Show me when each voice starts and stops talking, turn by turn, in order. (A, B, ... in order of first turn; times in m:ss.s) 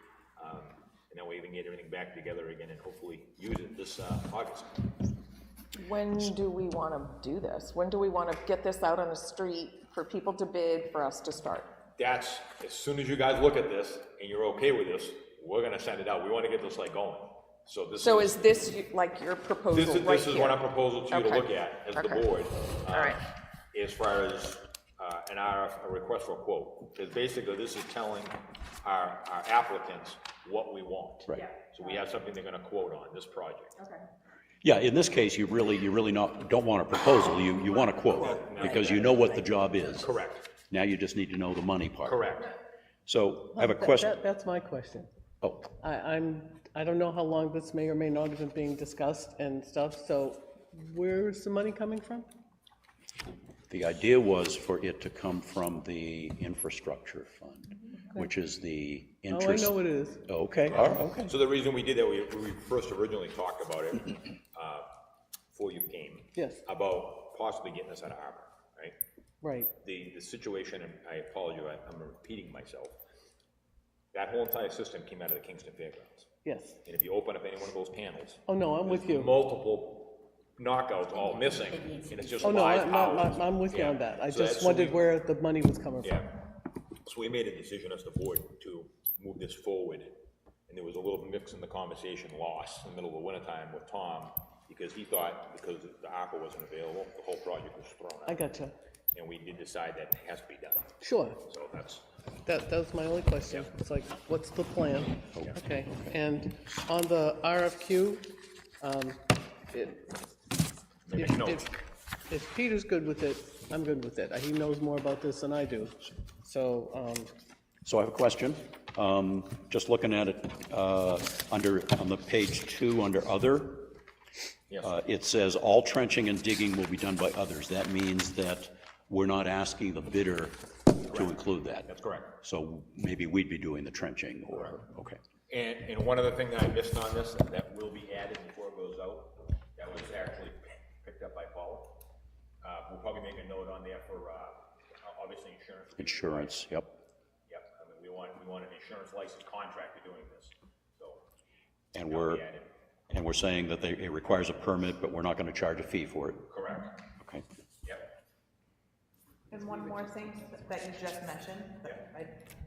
0:00.4-0:04.7 A
0:05.7-0:11.7 B
0:12.0-0:18.5 A
0:18.0-0:22.2 B
0:19.7-0:23.2 A
0:22.9-0:23.2 B
0:23.7-0:33.8 A
0:31.3-0:31.9 B
0:34.6-0:40.1 C
0:38.1-0:39.4 A
0:39.9-0:40.4 A
0:40.7-0:42.2 C
0:42.0-0:42.5 A
0:43.1-0:44.1 C
0:43.5-0:45.1 D
0:45.4-0:45.7 C
0:45.8-0:52.3 D
0:53.7-1:01.3 C
0:59.3-1:00.2 D
1:00.7-1:04.9 A
1:05.5-1:09.0 A
1:06.4-1:06.6 D
1:09.4-1:09.7 D
1:09.8-1:13.0 A
1:14.1-1:16.3 A
1:16.4-1:16.8 D
1:16.8-1:25.1 A
1:18.5-1:19.4 D
1:22.4-1:26.2 D
1:26.0-1:26.3 A
1:27.0-1:38.4 A
1:38.2-1:38.7 D
1:39.1-1:42.1 A
1:41.0-1:41.4 D
1:42.4-1:50.2 D
1:51.1-1:51.7 A
1:51.1-1:51.7 D
1:52.3-1:57.3 D
1:57.8-2:04.0 C
2:04.7-2:05.0 A
2:04.8-2:11.9 C
2:11.1-2:12.3 A
2:12.4-2:15.2 C
2:15.5-2:21.9 A
2:22.6-2:26.6 A
2:26.0-2:27.0 C
2:27.5-2:31.2 A
2:31.9-2:32.4 C
2:32.1-2:32.7 A
2:33.1-2:36.5 C
2:36.5-2:36.9 A
2:37.8-2:38.1 A
2:39.5-2:42.4 E